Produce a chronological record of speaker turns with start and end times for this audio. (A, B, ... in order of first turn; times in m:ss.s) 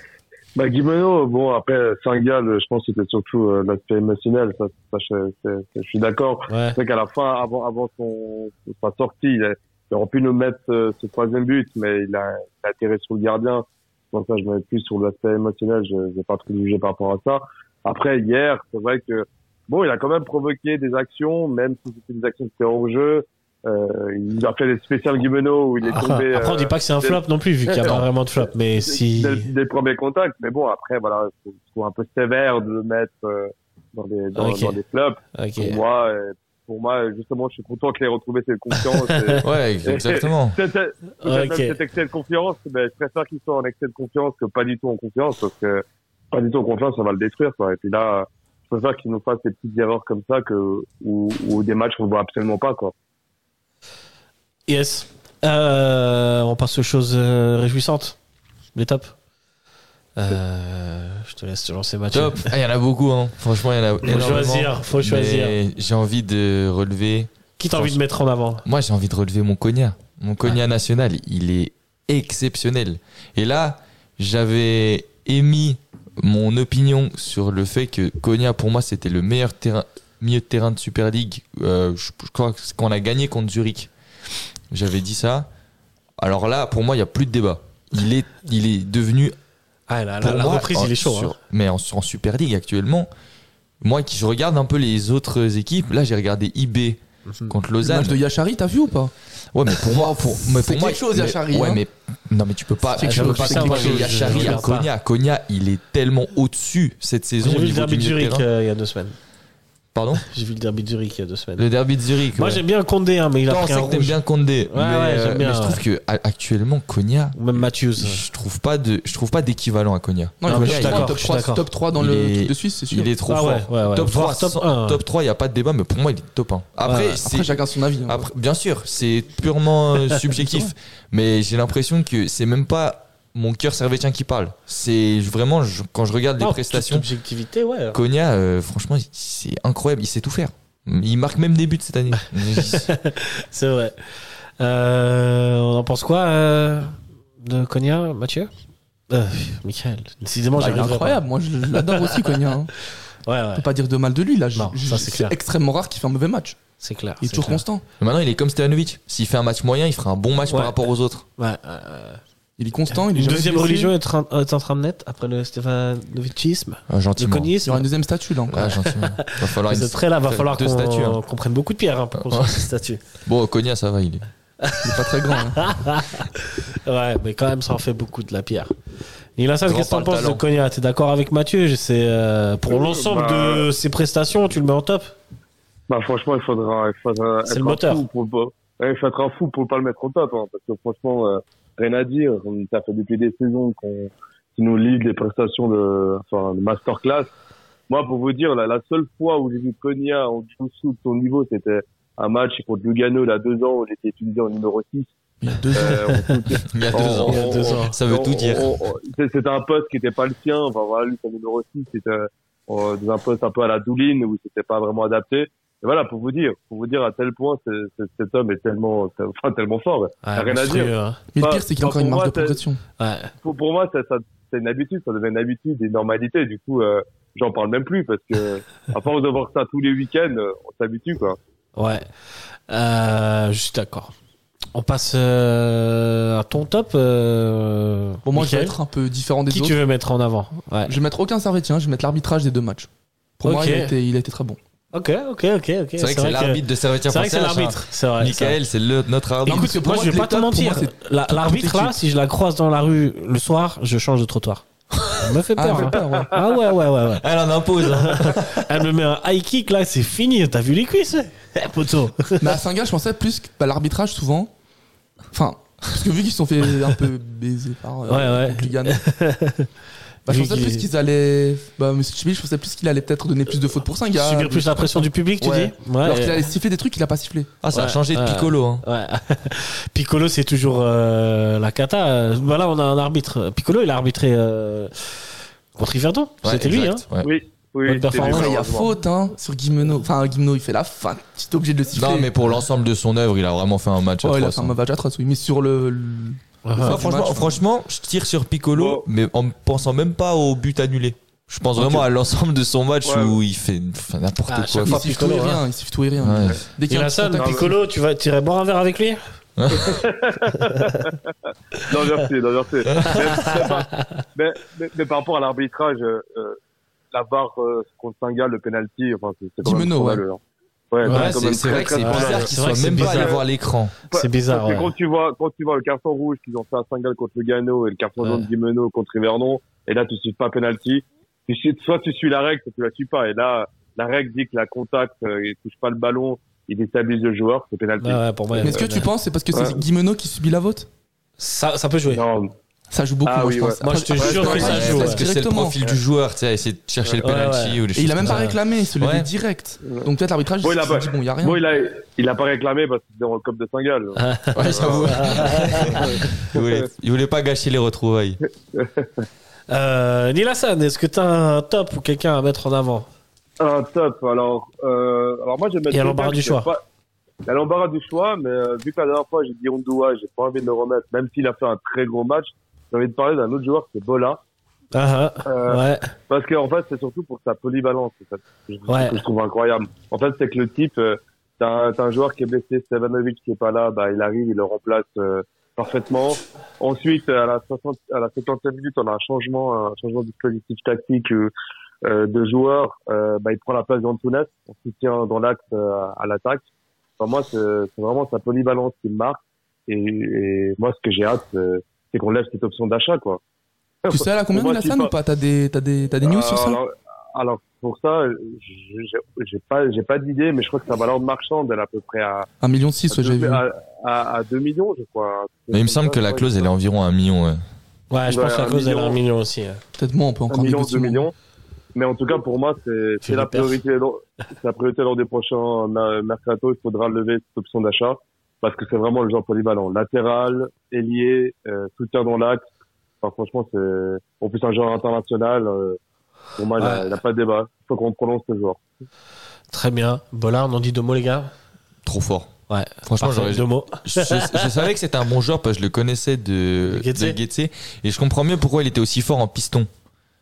0:00.6-0:28.0 A
0:06.5-0:06.8 B
0:25.8-0:29.5 B
0:28.8-0:52.9 A
0:34.4-0:34.8 B
0:35.3-0:35.8 B
0:38.7-0:39.4 B
0:39.4-0:40.6 C
0:41.2-0:41.7 B
0:54.7-0:58.2 B
0:58.7-0:59.1 B
1:00.2-1:02.5 B
1:02.1-1:08.0 C
1:04.0-1:05.6 B
1:07.6-1:08.6 B
1:08.6-1:23.9 C
1:24.7-1:25.5 C
1:26.2-1:29.4 C
1:29.9-1:31.3 B
1:30.2-1:33.1 C
1:33.8-1:38.2 C
1:37.3-1:37.5 B
1:37.8-1:39.1 D
1:39.5-1:48.4 C
1:39.7-1:41.8 D
1:42.9-1:44.6 D
1:43.0-1:44.9 B
1:47.4-1:49.2 B
1:49.9-1:50.2 C
1:50.2-1:51.7 B
1:51.6-1:52.6 C
1:52.3-1:54.2 B
1:53.5-2:01.1 C
1:54.7-1:55.8 B
1:57.4-1:58.2 B
2:00.4-2:03.1 D
2:00.4-2:01.6 B
2:02.0-2:17.1 C
2:03.3-2:05.0 B
2:06.8-2:07.2 B
2:07.2-2:08.3 D
2:16.4-2:18.0 B
2:17.9-2:22.9 C
2:22.4-2:28.5 B
2:29.1-2:31.2 B
2:30.6-2:32.7 D
2:31.7-2:32.5 B
2:33.2-2:33.7 B
2:33.5-2:36.6 D
2:34.5-2:35.4 B
2:36.8-2:37.6 B
2:37.2-2:37.8 D
2:38.0-2:41.2 C
2:40.5-2:40.7 B
2:41.4-2:42.2 B
2:42.6-2:43.9 D
2:42.9-2:47.8 B
2:46.9-2:47.5 C
2:47.6-2:48.8 D
2:48.5-2:51.2 C
2:48.6-2:53.0 B
2:52.2-2:52.6 C
2:53.2-2:54.3 C
2:54.6-2:58.7 B
2:54.8-2:55.6 D
2:59.4-3:05.1 B
2:59.6-3:00.4 C
3:02.7-3:03.6 A
3:05.9-3:17.3 A
3:07.5-3:08.0 B
3:17.9-3:25.1 A
3:25.4-3:26.2 D
3:25.7-3:42.6 A
3:25.8-3:26.3 B
3:26.7-3:28.7 C
3:27.2-3:28.0 B
3:40.2-3:41.2 B
3:41.3-3:42.8 D
3:43.0-3:43.3 B
3:43.4-3:51.4 A
3:51.8-3:52.0 B
3:52.7-3:54.1 B
3:54.7-3:58.8 B
3:58.2-3:59.8 D
3:59.5-4:01.0 B
4:00.8-4:04.6 D
4:03.4-4:03.9 B
4:04.9-4:08.6 B
4:06.0-4:09.7 C
4:09.4-4:12.0 D
4:09.5-4:14.6 B
4:15.2-4:17.2 B
4:15.6-4:16.4 D
4:17.1-4:18.7 C
4:17.8-4:22.5 B
4:22.4-4:24.5 D
4:25.3-4:29.0 D
4:28.1-4:29.7 B
4:30.2-4:37.5 D
4:30.3-4:30.9 B
4:34.2-4:36.5 B
4:37.6-4:38.8 C
4:37.7-4:47.0 B
4:46.4-4:47.3 C
4:47.2-4:48.9 A
4:47.8-4:48.5 B
4:48.1-4:52.3 D
4:51.9-4:54.7 C
4:54.2-4:57.6 D
4:56.6-4:57.0 B
4:56.8-5:05.0 C
4:58.7-4:59.0 A
5:01.8-5:02.0 D
5:03.0-5:03.4 A
5:04.5-5:05.6 B
5:04.8-5:07.7 D
5:06.2-5:06.6 C
5:06.9-5:09.2 B
5:07.4-5:07.7 A
5:09.6-5:10.0 C
5:09.7-5:11.3 A
5:10.6-5:11.1 B
5:11.8-5:16.6 A
5:13.0-5:13.3 C
5:13.0-5:14.2 B
5:17.1-5:20.4 A
5:19.6-5:20.2 D
5:20.9-5:23.4 A
5:21.0-5:23.4 B
5:21.0-5:23.9 C
5:24.1-5:38.8 A
5:24.1-5:24.9 B
5:28.2-5:28.5 B
5:38.0-5:39.1 B
5:38.6-5:40.9 D
5:39.5-5:39.8 A
5:41.4-5:42.2 B
5:42.1-5:42.5 A
5:42.9-5:45.8 D
5:43.2-5:45.1 A
5:43.8-5:45.2 B
5:44.4-5:49.3 C
5:47.2-5:48.6 B
5:47.9-5:51.6 D
5:49.8-5:50.1 A
5:50.6-5:56.9 A
5:54.2-5:56.3 B
5:54.5-5:58.4 C
5:58.7-5:59.3 A
5:59.7-6:03.1 B
6:03.6-6:06.8 A
6:05.9-6:06.7 B
6:07.5-6:14.4 A
6:14.9-6:16.1 B
6:15.4-6:31.5 A
6:18.9-6:19.2 B
6:32.0-6:36.6 A
6:37.2-6:43.4 A
6:44.0-6:45.1 A
6:44.1-6:46.8 D
6:46.2-6:52.5 A
6:52.6-6:53.6 D
6:53.1-6:56.7 A
6:55.7-6:57.6 C
6:58.1-6:59.8 B
6:58.3-6:59.2 A
7:00.0-7:01.3 D
7:00.5-7:01.3 A
7:01.9-7:12.6 A
7:03.2-7:03.8 B
7:13.2-7:16.0 A
7:16.6-7:18.8 A
7:16.8-7:17.1 B
7:19.7-7:21.5 B
7:22.0-7:22.5 C
7:22.7-7:24.7 B
7:23.0-7:29.9 C
7:26.9-7:27.4 B